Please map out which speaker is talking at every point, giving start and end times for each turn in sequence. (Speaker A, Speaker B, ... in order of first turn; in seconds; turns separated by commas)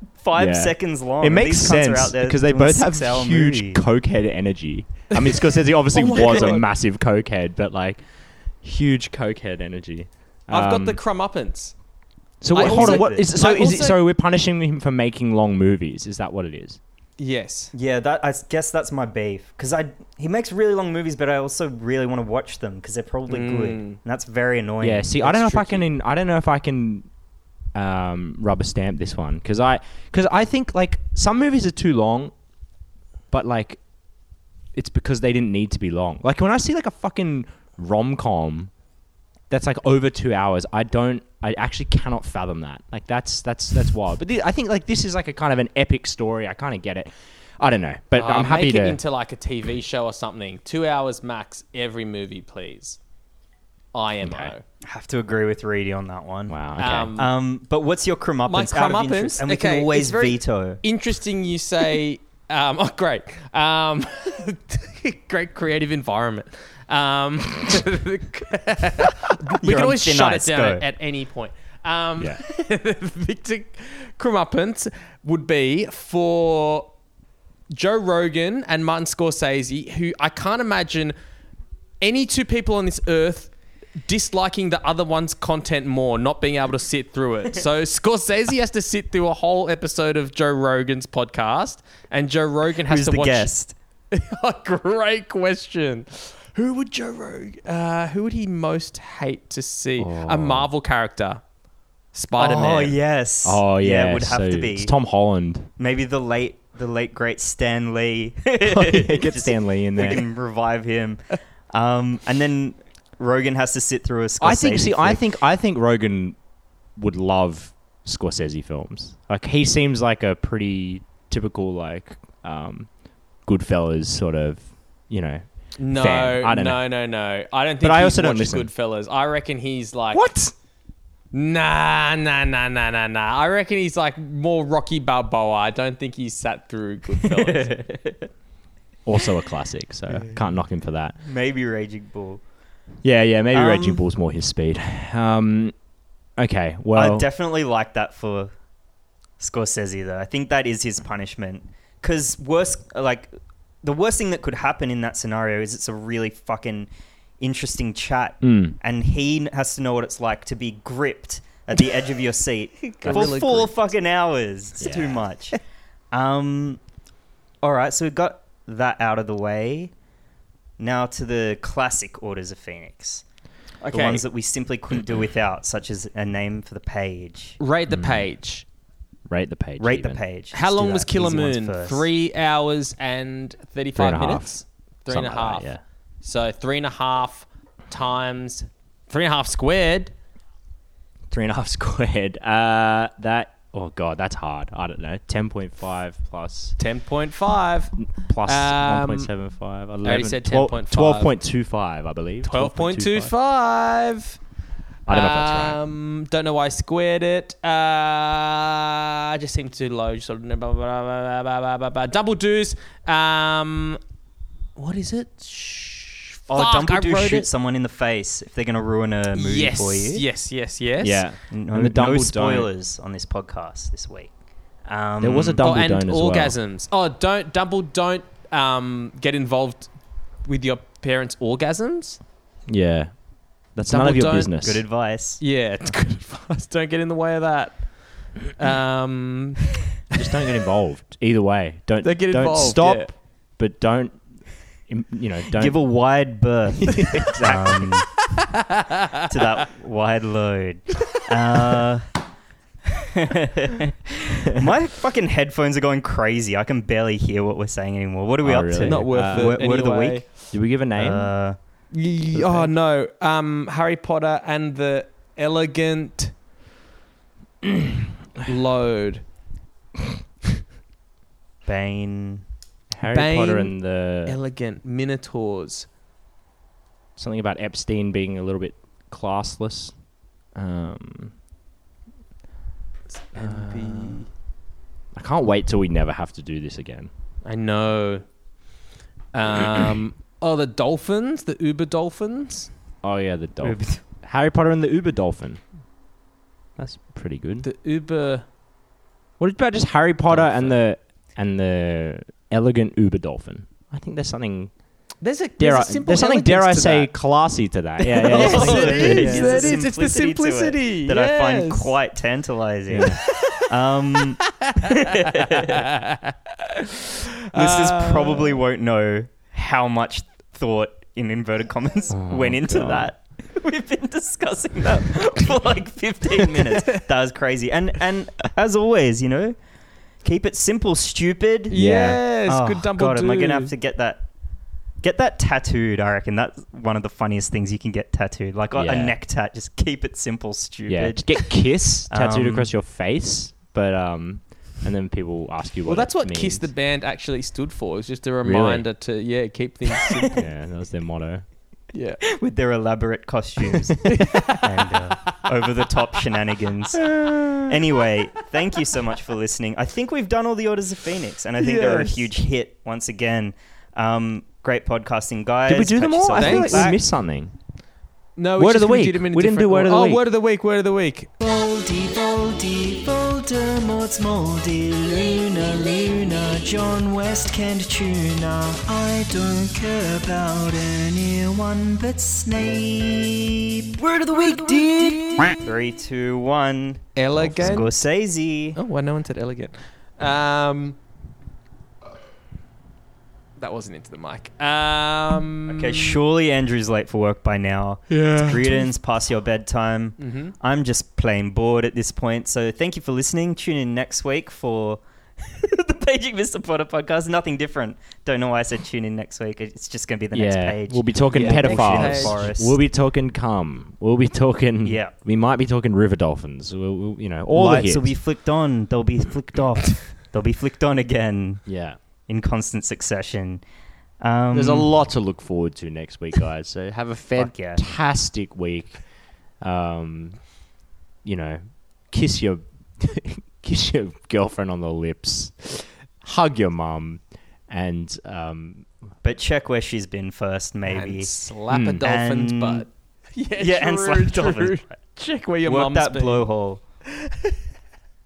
Speaker A: 0.2-3.8, Speaker B: 0.3-8.0, Speaker C: 5.1-6.6, Speaker B: 8.6-11.0, Speaker C: 10.5-11.7, Speaker B: 12.4-16.8, Speaker A: 12.5-13.3, Speaker C: 12.5-14.0, Speaker C: 17.2-17.7, Speaker A: 17.7-25.2, Speaker C: 23.3-24.0, Speaker B: 24.8-27.1, Speaker C: 25.2-25.8, Speaker B: 27.7-32.3, Speaker B: 33.3-33.8, Speaker B: 34.7-38.7, Speaker B: 39.5-49.0, Speaker C: 48.1-53.0, Speaker C: 53.9-54.6, Speaker B: 54.2-54.5, Speaker A: 54.9-56.6, Speaker B: 56.5-57.2, Speaker C: 56.8-57.3, Speaker A: 57.1-60.8, Speaker C: 58.5-76.9, Speaker A: 69.5-70.8, Speaker C: 77.7-81.1, Speaker C: 82.0-83.5, Speaker C: 84.0-93.5, Speaker A: 92.9-93.7, Speaker C: 94.1-101.4, Speaker B: 100.0-100.7, Speaker C: 102.1-103.0, Speaker A: 102.4-104.9, Speaker B: 103.4-105.7, Speaker A: 105.8-111.2, Speaker B: 108.6-110.2, Speaker A: 111.7-115.4, Speaker B: 114.4-116.4, Speaker B: 117.0-122.9, Speaker B: 123.4-126.8, Speaker C: 125.8-130.2, Speaker B: 127.8-128.7, Speaker B: 130.1-130.5, Speaker C: 131.3-137.8, Speaker A: 137.2-138.3, Speaker B: 139.1-141.2, Speaker A: 141.2-142.4, Speaker B: 143.0-145.7, Speaker A: 143.5-144.0, Speaker B: 146.4-147.3, Speaker A: 146.9-148.5, Speaker A: 149.4-153.3, Speaker A: 153.8-156.9, Speaker A: 157.4-165.6, Speaker B: 158.4-158.8, Speaker C: 162.8-163.8, Speaker B: 163.0-163.3, Speaker B: 164.8-165.2, Speaker A: 166.1-166.8, Speaker A: 167.6-169.9, Speaker A: 170.8-173.2, Speaker C: 173.8-174.2, Speaker A: 173.9-177.6, Speaker C: 177.6-178.6, Speaker B: 177.9-178.2, Speaker B: 179.3-180.2, Speaker A: 179.8-182.1, Speaker C: 180.5-185.7, Speaker B: 183.9-185.8, Speaker C: 186.2-190.1, Speaker B: 191.3-196.8, Speaker C: 196.8-199.3, Speaker B: 198.0-203.3, Speaker C: 200.0-201.3, Speaker C: 202.4-204.4, Speaker B: 205.1-205.8, Speaker C: 205.1-214.0, Speaker C: 214.8-217.5, Speaker A: 216.5-220.2, Speaker C: 219.3-221.3, Speaker B: 221.0-222.7, Speaker A: 221.5-224.3, Speaker A: 224.9-225.7, Speaker B: 225.2-226.6, Speaker C: 225.6-229.9, Speaker C: 230.4-232.2, Speaker B: 232.7-233.1, Speaker B: 233.7-234.8, Speaker C: 233.9-234.7, Speaker A: 234.6-235.4, Speaker C: 235.4-240.2, Speaker B: 240.1-244.2, Speaker C: 242.0-243.1, Speaker B: 244.9-245.8, Speaker A: 245.5-248.1, Speaker B: 246.8-247.9, Speaker C: 248.5-249.1, Speaker A: 249.3-252.1, Speaker A: 253.0-261.6, Speaker B: 258.4-259.6, Speaker C: 258.8-260.4, Speaker B: 260.5-261.3, Speaker C: 261.9-266.3, Speaker B: 262.3-262.7, Speaker C: 268.4-269.2, Speaker A: 271.6-272.4, Speaker B: 272.9-274.4, Speaker C: 273.1-275.9, Speaker B: 277.1-279.9, Speaker B: 280.5-281.3, Speaker C: 283.1-284.3, Speaker B: 283.3-284.2, Speaker B: 285.1-287.1, Speaker C: 287.4-288.2, Speaker C: 289.3-292.7, Speaker B: 293.0-295.6, Speaker A: 293.6-294.0, Speaker B: 296.8-297.7, Speaker C: 297.6-298.4, Speaker B: 299.4-304.7, Speaker C: 300.3-300.8, Speaker C: 305.2-307.1, Speaker B: 305.6-309.8, Speaker C: 308.1-311.9, Speaker A: 308.2-315.9, Speaker B: 312.9-313.2, Speaker C: 313.3-313.6, Speaker C: 314.4-318.6, Speaker A: 317.5-329.6, Speaker B: 322.1-323.1, Speaker C: 326.5-327.0, Speaker A: 330.2-331.8, Speaker C: 331.7-333.7, Speaker B: 331.7-332.2, Speaker A: 332.4-334.2, Speaker A: 335.0-341.6, Speaker B: 338.7-339.1, Speaker B: 340.9-346.7, Speaker A: 342.1-342.7, Speaker C: 345.8-350.4, Speaker B: 348.4-348.9, Speaker B: 350.3-351.4, Speaker C: 351.9-352.2, Speaker A: 352.2-367.0, Speaker C: 354.1-355.0, Speaker B: 356.9-357.8, Speaker C: 361.6-362.3, Speaker B: 365.6-367.5, Speaker C: 366.3-367.0, Speaker C: 368.4-371.3, Speaker B: 368.6-370.2, Speaker A: 371.4-388.8, Speaker C: 387.2-387.9, Speaker C: 388.8-391.0, Speaker C: 393.6-396.2, Speaker A: 395.7-412.8, Speaker C: 398.1-398.9, Speaker C: 400.2-400.5, Speaker B: 410.3-418.1, Speaker C: 411.3-412.4, Speaker A: 414.8-415.1, Speaker A: 417.5-421.6, Speaker B: 421.6-422.0, Speaker A: 422.3-423.6, Speaker A: 424.2-424.9, Speaker B: 424.5-429.0, Speaker A: 427.3-427.8, Speaker B: 429.6-430.5, Speaker B: 431.2-438.9, Speaker A: 439.2-441.3, Speaker C: 440.9-446.4, Speaker B: 441.7-442.0, Speaker A: 442.0-442.9, Speaker A: 443.6-445.0, Speaker A: 445.6-446.8, Speaker C: 447.1-447.6